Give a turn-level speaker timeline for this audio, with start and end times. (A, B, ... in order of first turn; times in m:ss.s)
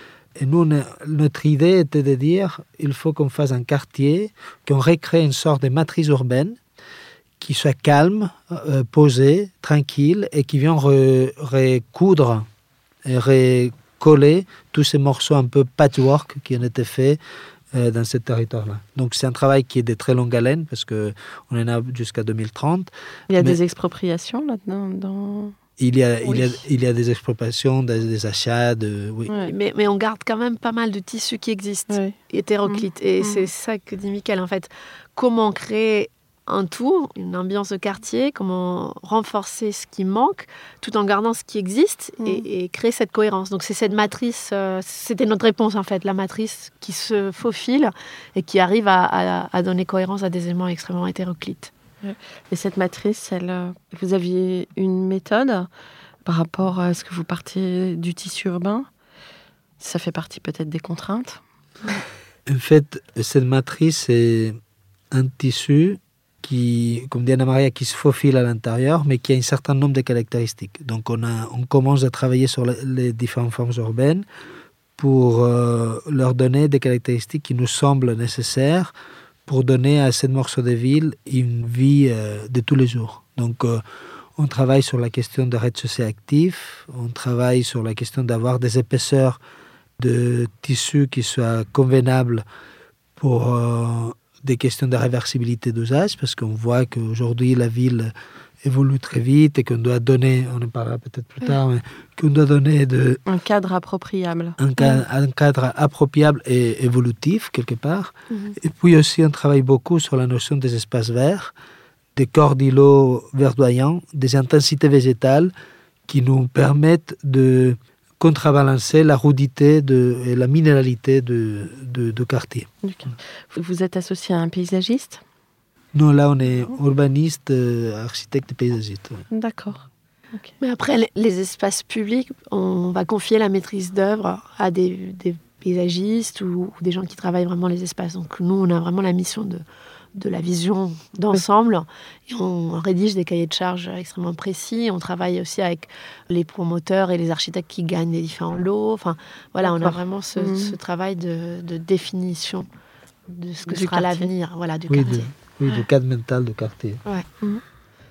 0:00.4-0:06.6 A
0:07.4-0:12.5 A
0:13.0-0:17.2 A
0:17.7-0:23.6 A
0:23.3-0:25.6 B
0:25.8-0:29.3 A
0:29.3-0:29.5 B
0:29.4-0:51.7 C
0:31.9-0:33.5 B
0:52.0-0:55.7 B
0:56.3-0:58.9 B
0:59.8-1:01.4 B
1:02.5-1:04.6 A
1:05.1-1:14.3 A
1:15.0-1:18.9 A
1:19.5-1:23.8 A
1:24.4-1:29.4 A
1:30.0-1:32.4 A
1:33.2-1:43.2 A
1:43.3-1:44.6 B
1:44.6-1:51.5 A
1:48.3-1:48.6 C
1:52.2-1:55.5 A
1:56.1-2:02.7 A
2:02.8-2:05.2 B
2:05.9-2:09.2 A
2:09.3-2:10.5 B
2:10.6-2:19.6 C
2:20.2-2:32.7 C
2:29.6-2:30.8 B
2:33.3-2:35.3 C
2:33.7-2:34.3 B
2:34.9-2:37.0 A